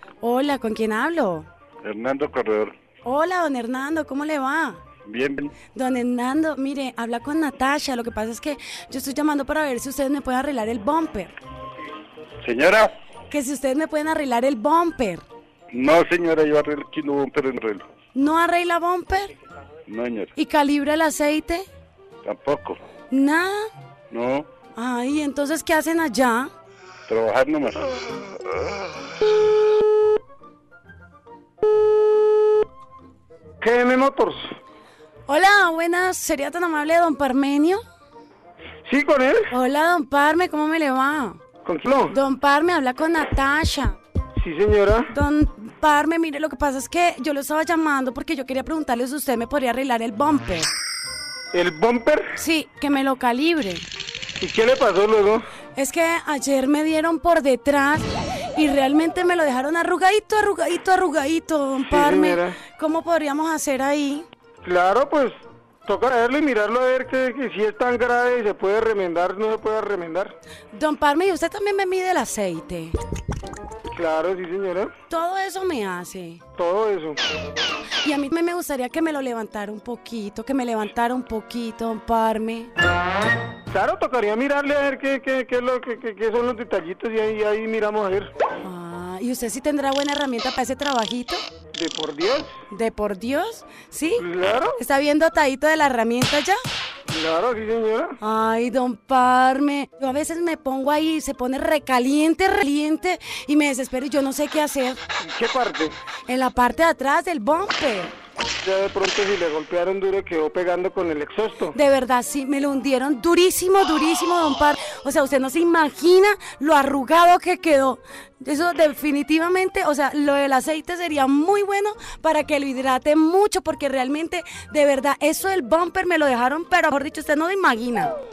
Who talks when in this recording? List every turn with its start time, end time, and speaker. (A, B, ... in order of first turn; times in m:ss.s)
0:00.2-0:01.5 A
0:01.8-0:02.7 B
0:03.0-0:04.8 A
0:05.0-0:05.5 B
0:05.7-0:11.3 A
0:12.4-0:13.0 B
0:13.3-0:15.2 A
0:15.7-0:17.9 B
0:18.1-0:19.3 A
0:19.9-0:20.3 B
0:20.4-0:21.6 A
0:22.2-0:22.8 B
0:23.1-0:23.7 A
0:24.1-0:24.5 B
0:24.8-0:26.5 A
0:27.1-0:27.9 B
0:33.6-0:34.5 C
0:35.3-0:37.8 A
0:38.8-0:39.5 C
0:39.5-0:41.4 A
0:41.6-0:42.2 C
0:42.1-0:44.0 A
0:44.4-0:45.1 C
0:45.1-0:50.7 A
0:51.5-0:52.3 C
0:52.4-0:53.8 A
0:54.4-0:55.4 C
0:55.8-1:04.2 A
1:01.8-1:02.6 C
1:04.6-1:10.3 C
1:10.7-1:12.9 A
1:13.9-1:14.9 C
1:15.1-1:16.4 A
1:16.6-1:17.2 C
1:18.0-1:22.7 A
1:23.7-1:28.3 C
1:28.6-1:31.4 A
1:31.7-1:32.5 C
1:32.7-1:34.2 A
1:34.2-1:34.8 C
1:34.8-1:36.6 A
1:37.1-1:38.2 C
1:38.2-1:45.0 A
1:45.2-1:45.9 C
1:46.3-1:48.1 A
1:48.6-1:51.8 C
1:51.7-2:08.1 A